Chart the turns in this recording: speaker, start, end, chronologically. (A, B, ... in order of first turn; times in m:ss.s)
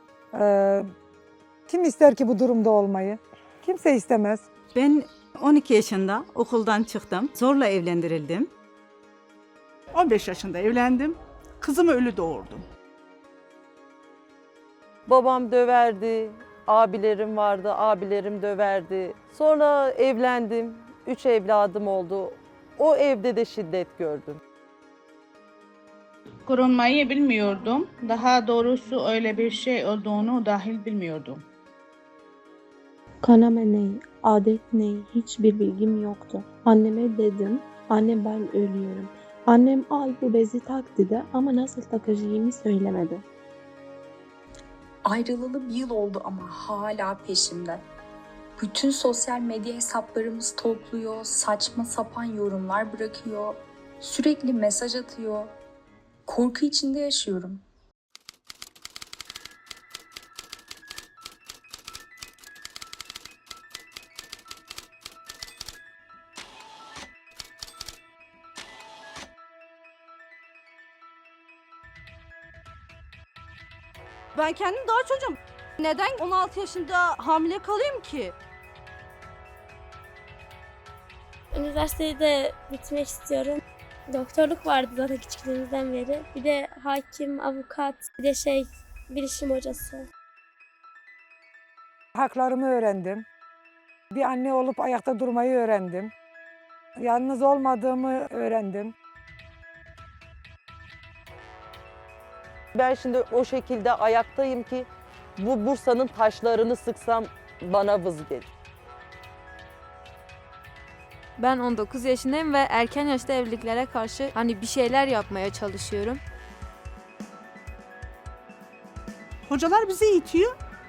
0:00.3-0:00.9 A
0:01.7-0:04.4 A
0:04.8-0:08.5 B
0:09.9-0:12.6 C
0:15.1-0:24.4 D
0:26.5-0:31.4 E
0:33.2-0:43.2 F
0:45.0-0:47.8 G
0:48.6-0:55.5 G
0:56.3-0:57.6 G
1:14.4-1:18.3 H
1:21.5-1:30.0 I
1:32.2-1:33.2 A
1:34.1-1:36.1 A
1:37.0-1:38.9 A
1:42.7-1:48.5 D
1:51.4-1:56.2 J
1:59.5-2:00.5 C